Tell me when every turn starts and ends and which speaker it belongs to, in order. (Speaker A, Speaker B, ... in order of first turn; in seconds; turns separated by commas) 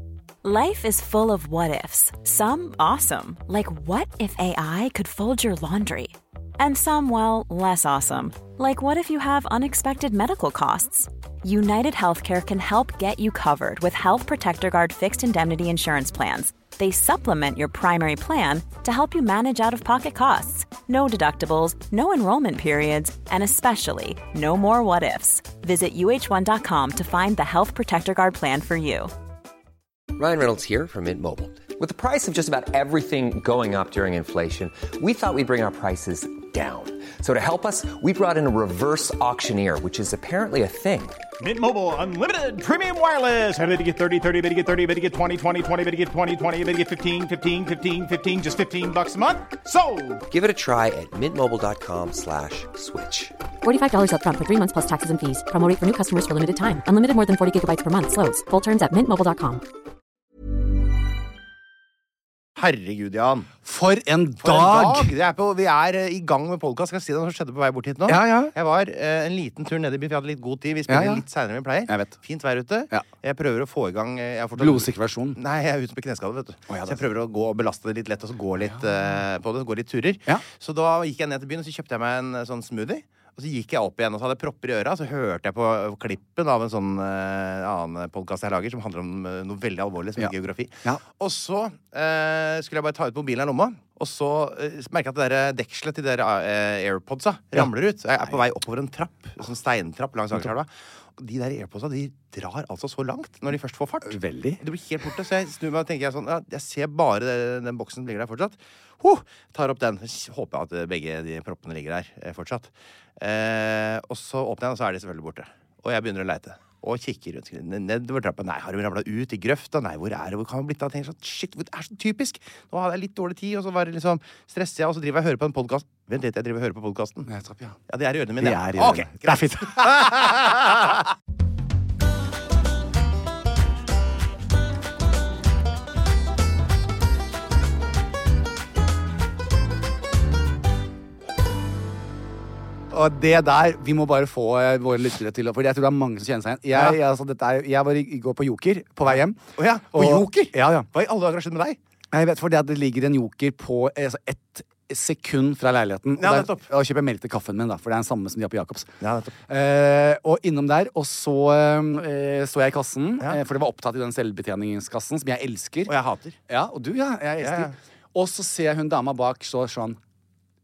Speaker A: 0.4-29.1, Speaker B: 30.1-41.2, Speaker C: 41.4-50.2, Speaker B: 50.3-53.3, Speaker D: 53.6-59.6, Speaker E: 62.5-63.5, Speaker F: 63.6-65.1, Speaker E: 64.4-127.3, Speaker F: 68.1-68.5, Speaker F: 70.9-71.2, Speaker F: 71.9-72.2, Speaker F: 74.6-75.4, Speaker F: 76.7-77.0, Speaker F: 104.0-104.6, Speaker F: 127.3-127.8, Speaker E: 127.9-131.1, Speaker F: 128.4-130.5, Speaker F: 142.9-150.9, Speaker E: 149.0-151.8, Speaker F: 152.1-158.9, Speaker E: 156.2-156.7, Speaker E: 159.0-159.3, Speaker F: 159.5-165.9, Speaker E: 165.8-166.4, Speaker F: 166.5-170.0, Speaker E: 167.4-167.7